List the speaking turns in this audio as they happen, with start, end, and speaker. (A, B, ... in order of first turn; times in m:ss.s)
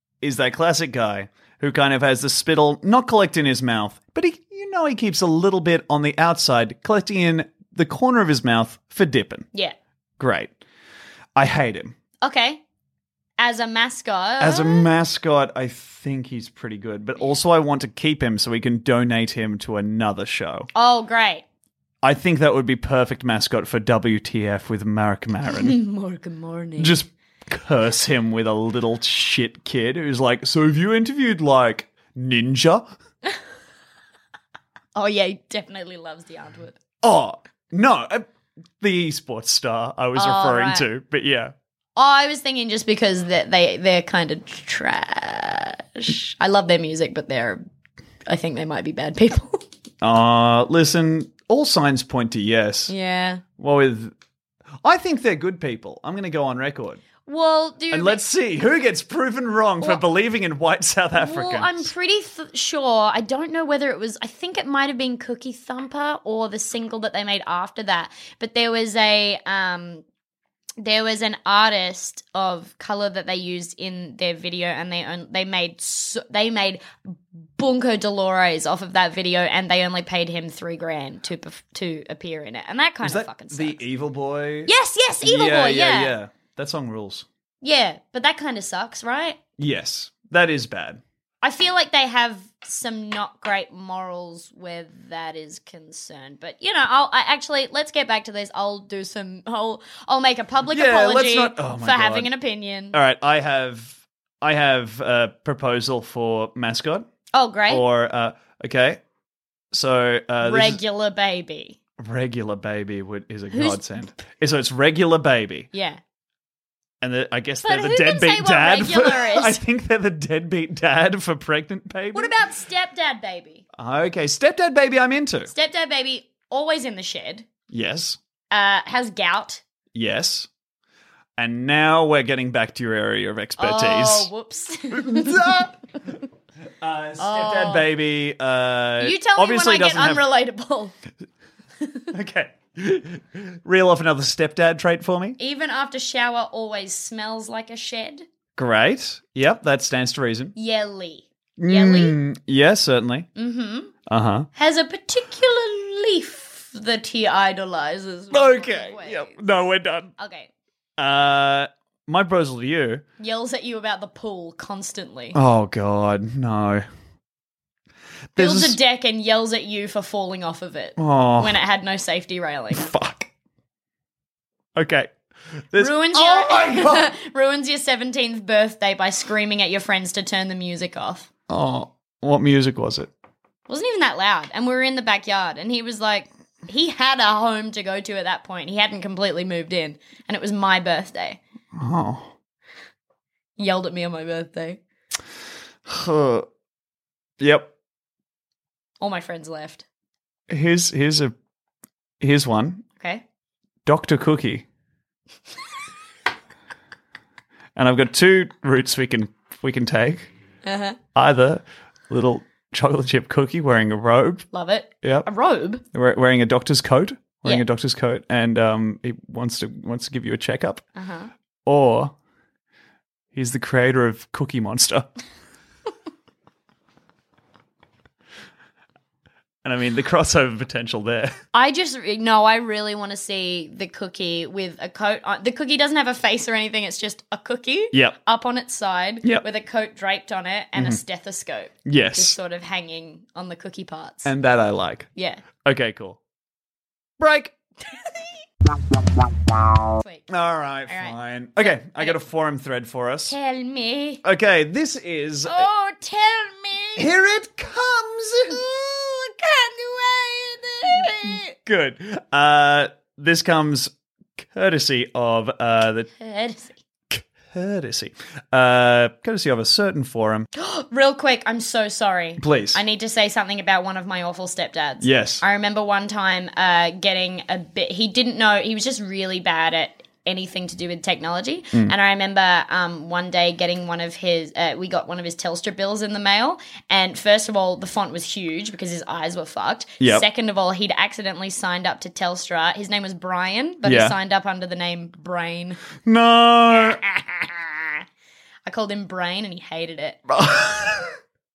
0:00.2-0:09.5 A
0:10.2-0:10.5 A
0:11.4-0:11.9 A
0:12.2-0:12.6 B
0:13.4-0:14.9 B
0:14.4-0:20.7 A
0:20.7-0:21.4 B
0:22.0-0:25.8 A
0:25.6-0:27.0 B
0:26.8-0:32.9 A
0:35.0-0:36.8 B
0:37.0-0:38.3 A
0:38.8-0:41.5 A
0:40.2-0:40.8 B
0:42.0-0:47.6 B
0:48.3-0:49.6 B
0:50.0-0:52.9 A
0:52.9-0:53.4 B
0:53.6-0:54.1 A
0:54.8-0:57.0 A
0:57.2-0:58.2 B
0:57.9-1:01.9 A
1:01.2-1:10.0 B
1:10.8-1:23.8 B
1:23.0-1:24.7 A
1:24.7-1:26.2 B
1:25.2-1:27.3 A
1:27.6-1:29.4 B
1:29.6-1:31.0 A
1:31.4-1:43.0 B
1:40.7-1:42.3 A
1:42.9-1:47.1 A
1:47.3-1:47.8 B
1:47.7-1:49.0 A
1:49.7-1:50.8 A
1:50.4-1:51.8 B
1:52.0-1:55.7 A
1:53.5-1:54.2 B
1:55.7-1:56.0 B
1:57.0-2:02.3 A
1:57.6-1:59.6 B
2:02.1-2:03.6 B
2:03.8-2:05.5 A
2:05.5-2:07.5 B
2:07.7-2:08.2 A
2:08.5-2:09.6 B
2:09.9-2:10.5 A
2:11.4-2:14.3 A
2:13.6-2:15.7 B
2:14.9-2:15.8 A
2:16.8-2:20.2 A
2:17.2-2:17.9 B
2:19.0-2:20.9 B
2:22.1-2:25.4 A
2:25.4-2:28.2 B
2:28.6-2:30.5 A
2:30.6-2:32.2 B
2:31.6-2:33.3 A
2:33.4-2:33.9 B
2:34.1-2:34.5 A
2:34.6-2:39.6 B
2:38.3-2:40.1 A
2:40.2-2:40.5 B
2:41.0-2:43.0 A
2:43.2-2:45.4 B
2:45.3-2:46.8 A
2:48.4-2:48.8 A
2:48.4-2:52.9 B
2:51.0-2:51.6 A
2:52.8-2:53.3 A
2:54.8-2:55.1 A
2:55.7-2:57.1 A
2:55.8-3:01.3 B
3:01.5-3:03.1 A
3:03.7-3:11.4 B
3:11.8-3:12.3 A
3:13.6-3:14.8 B
3:15.9-3:16.5 A
3:17.4-3:17.7 A
3:19.0-3:19.8 B
3:20.5-3:21.3 A
3:22.2-3:22.8 A
3:23.9-3:24.6 A
3:27.8-3:30.3 A
3:30.6-3:31.0 B
3:31.2-3:34.5 A
3:34.5-3:35.8 B
3:35.0-3:35.3 A
3:35.9-3:40.8 A
3:41.0-3:41.3 B
3:41.7-3:42.1 A
3:43.3-3:45.1 A
3:49.6-3:51.4 A
3:51.5-4:04.3 B
4:01.8-4:02.4 A
4:04.3-4:05.1 A
4:05.2-4:05.4 B
4:05.6-4:06.2 A
4:07.2-4:07.5 A
4:07.9-4:08.4 B
4:10.0-4:10.3 B
4:10.3-4:13.3 A
4:10.9-4:12.2 B
4:13.2-4:14.2 B
4:14.2-4:15.7 A
4:15.5-4:17.1 B
4:17.0-4:18.8 A
4:18.5-4:21.5 B
4:20.9-4:26.1 A
4:26.2-4:26.8 B
4:27.1-4:30.5 A
4:30.6-4:55.8 B
4:32.4-4:32.8 A
4:35.0-4:35.4 A
4:50.0-4:50.3 A
4:53.8-4:54.2 A
4:56.1-4:57.6 A
4:58.7-5:00.2 B
5:00.3-5:01.2 A